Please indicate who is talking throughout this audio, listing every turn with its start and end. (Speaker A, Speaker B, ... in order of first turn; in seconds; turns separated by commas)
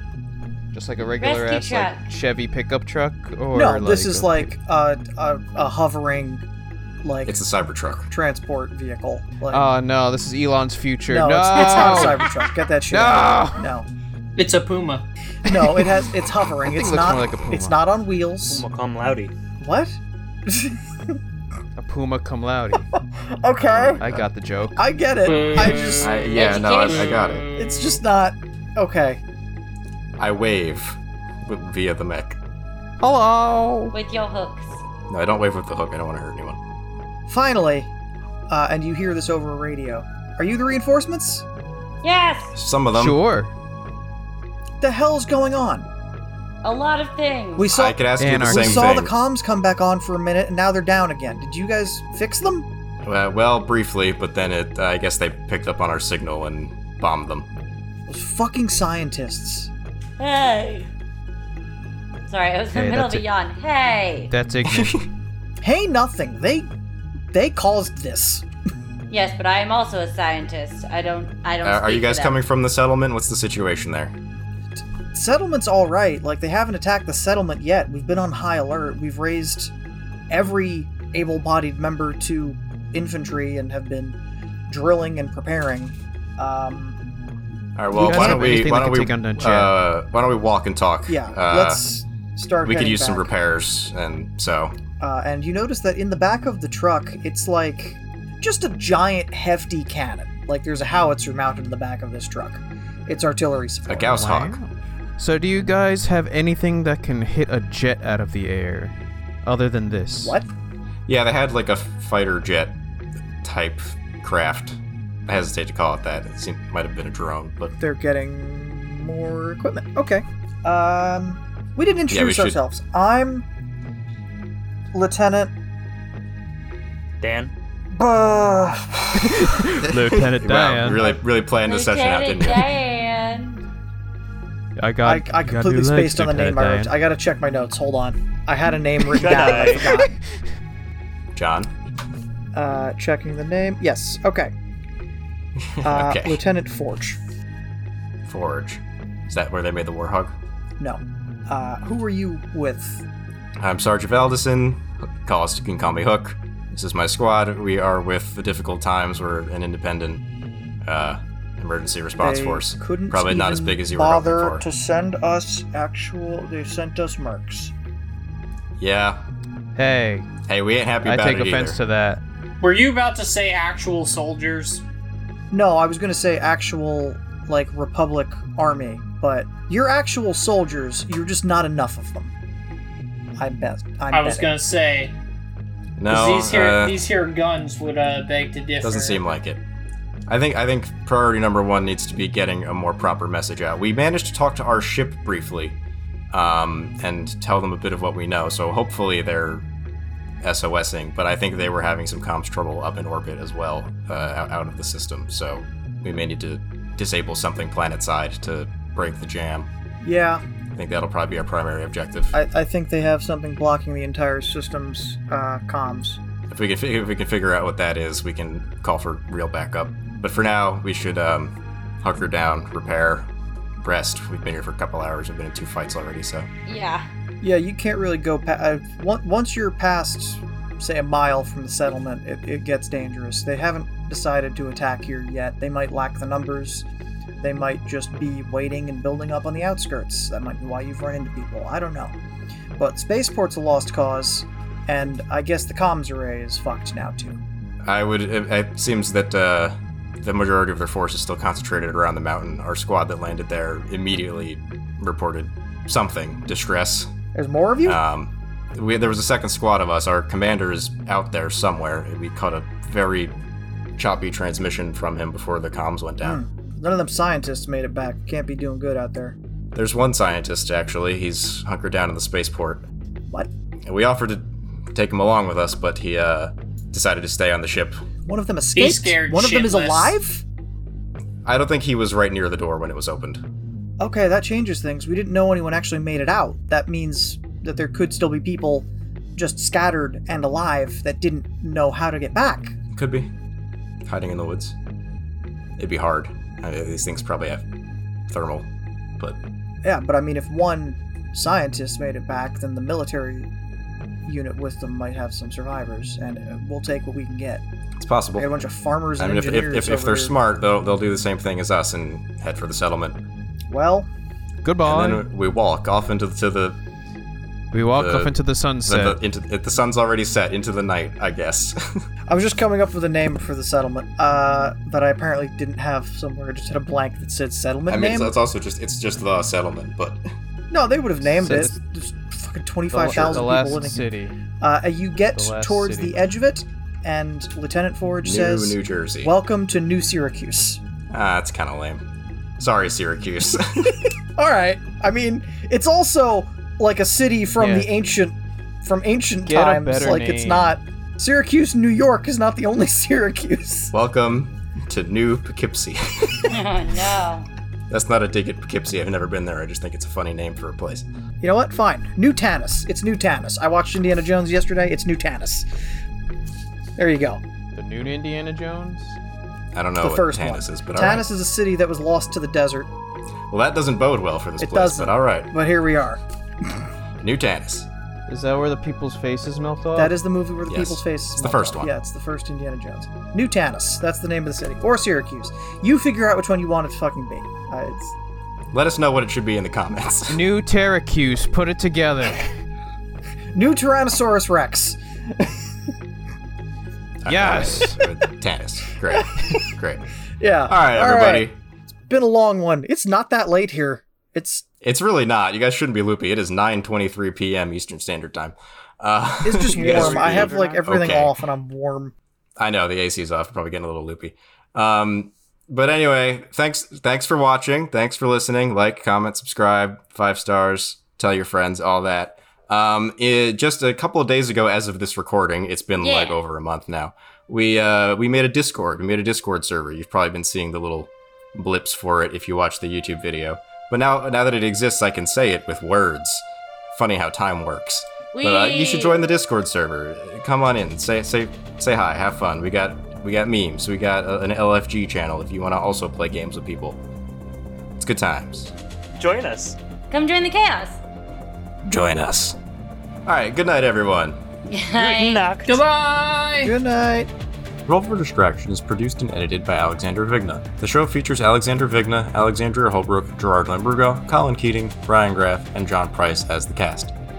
Speaker A: 0.7-4.5, Speaker B: 1.2-2.0, Speaker C: 3.5-6.4, Speaker C: 7.0-7.4, Speaker D: 7.2-8.1, Speaker C: 8.1-9.6, Speaker A: 9.5-12.3, Speaker C: 11.1-13.9, Speaker B: 11.6-12.2, Speaker A: 12.9-13.6, Speaker E: 14.4-15.0, Speaker A: 15.4-16.1, Speaker C: 15.4-18.6, Speaker A: 16.6-17.8, Speaker F: 18.5-19.3, Speaker C: 19.6-21.2, Speaker A: 21.8-22.9, Speaker C: 22.7-24.0, Speaker D: 23.7-24.3, Speaker A: 24.0-24.8, Speaker C: 24.8-26.1, Speaker E: 25.2-28.0, Speaker D: 26.0-27.5, Speaker B: 26.2-27.4, Speaker C: 27.5-29.2, Speaker D: 30.2-32.4, Speaker A: 33.0-33.9, Speaker B: 33.9-34.8, Speaker D: 35.1-36.6, Speaker C: 37.3-37.9, Speaker C: 38.5-41.4, Speaker B: 42.0-42.5, Speaker D: 42.5-43.2, Speaker A: 42.9-43.5, Speaker C: 44.8-45.9, Speaker B: 46.6-47.7, Speaker C: 47.5-52.7, Speaker D: 47.7-49.1, Speaker A: 48.2-49.0, Speaker D: 53.0-57.5, Speaker C: 58.1-59.7, Speaker B: 60.2-60.9, Speaker B: 62.3-64.3, Speaker A: 62.7-63.2, Speaker A: 64.3-65.0, Speaker D: 64.6-65.0, Speaker C: 65.6-66.7, Speaker C: 67.3-68.4, Speaker B: 69.1-72.4, Speaker D: 71.6-74.1, Speaker C: 75.1-79.7, Speaker C: 80.3-87.0, Speaker D: 87.8-91.8, Speaker C: 87.9-88.7, Speaker A: 88.0-89.7, Speaker C: 91.0-93.3, Speaker D: 92.6-94.8, Speaker C: 95.0-104.2, Speaker D: 103.9-104.6, Speaker A: 104.0-110.4, Speaker C: 110.2-110.5, Speaker D: 111.1-112.8, Speaker D: 113.4-117.7, Speaker C: 117.8-123.5, Speaker D: 122.1-122.6, Speaker C: 124.9-125.5, Speaker F: 127.2-127.5, Speaker C: 127.9-129.3, Speaker A: 129.2-131.1, Speaker D: 129.3-132.7, Speaker B: 131.7-133.6, Speaker A: 134.8-136.9, Speaker C: 135.0-140.2, Speaker A: 139.1-140.1, Speaker F: 139.2-139.9, Speaker D: 141.3-141.7, Speaker C: 142.5-144.5, Speaker D: 145.6-146.4, Speaker C: 145.8-147.2, Speaker D: 148.2-150.3, Speaker C: 150.8-153.0, Speaker D: 153.6-160.2, Speaker D: 160.8-164.6, Speaker C: 162.2-167.7, Speaker D: 168.8-169.2, Speaker A: 169.7-170.3, Speaker D: 170.5-171.8, Speaker A: 171.0-172.2, Speaker E: 172.6-174.8, Speaker C: 175.5-182.3, Speaker C: 183.4-184.5, Speaker E: 184.1-185.1, Speaker D: 186.0-187.0, Speaker E: 186.1-189.2, Speaker D: 188.8-189.6, Speaker D: 190.3-195.8, Speaker D: 196.3-199.6, Speaker D: 200.4-209.7, Speaker C: 210.0-210.4, Speaker D: 210.7-212.3, Speaker C: 212.3-216.2, Speaker D: 216.5-223.3, Speaker D: 223.8-226.5, Speaker B: 226.7-227.1, Speaker C: 227.4-236.9, Speaker C: 237.4-242.1, Speaker C: 242.8-247.4, Speaker D: 247.8-257.1, Speaker C: 257.3-258.0, Speaker D: 257.8-263.3, Speaker D: 264.0-266.4, Speaker C: 266.2-269.4, Speaker D: 269.7-272.9, Speaker D: 273.9-278.0, Speaker C: 278.2-280.4, Speaker E: 278.7-280.1, Speaker D: 281.4-283.4, Speaker C: 284.0-292.8, Speaker D: 292.9-293.3, Speaker D: 294.1-294.8, Speaker D: 295.8-297.6, Speaker D: 298.3-298.7, Speaker C: 299.8-303.5, Speaker C: 304.2-307.6, Speaker D: 308.0-308.5, Speaker C: 308.4-310.3, Speaker D: 309.2-313.2, Speaker C: 313.7-314.1, Speaker A: 314.6-315.2, Speaker D: 314.8-316.8, Speaker A: 317.7-319.2, Speaker D: 317.9-322.0, Speaker C: 322.3-328.3, Speaker D: 327.9-330.2, Speaker C: 330.7-334.1, Speaker A: 331.3-331.7, Speaker A: 332.9-334.4, Speaker C: 334.6-340.8, Speaker A: 335.3-336.2, Speaker D: 338.2-339.3, Speaker D: 341.1-342.0, Speaker D: 342.6-344.1, Speaker C: 344.4-353.9, Speaker A: 347.6-347.9, Speaker A: 349.4-350.7, Speaker D: 353.9-356.6, Speaker B: 356.5-357.5, Speaker D: 357.9-361.1, Speaker C: 361.4-365.7, Speaker C: 367.0-367.4, Speaker A: 367.7-369.2, Speaker D: 369.7-371.2, Speaker C: 370.0-372.9, Speaker D: 373.5-375.5, Speaker C: 374.6-376.8, Speaker D: 377.2-377.9, Speaker A: 378.3-380.1, Speaker C: 379.9-388.1, Speaker D: 380.7-381.9, Speaker D: 388.7-390.4, Speaker A: 390.3-392.4, Speaker C: 393.5-395.6, Speaker D: 397.2-400.1, Speaker A: 397.2-398.0, Speaker C: 399.1-399.6, Speaker C: 400.4-401.5, Speaker D: 400.7-401.6, Speaker C: 402.1-404.6, Speaker D: 404.8-411.3, Speaker C: 409.4-412.1, Speaker A: 409.7-410.9, Speaker D: 412.6-447.0, Speaker B: 426.0-426.4, Speaker B: 438.3-439.3, Speaker D: 448.0-448.7, Speaker F: 449.2-449.8, Speaker B: 450.1-451.0, Speaker D: 451.9-452.6, Speaker D: 453.2-454.4, Speaker B: 454.7-455.5, Speaker F: 454.9-455.8, Speaker E: 455.7-456.7, Speaker C: 456.6-457.3, Speaker D: 457.9-467.1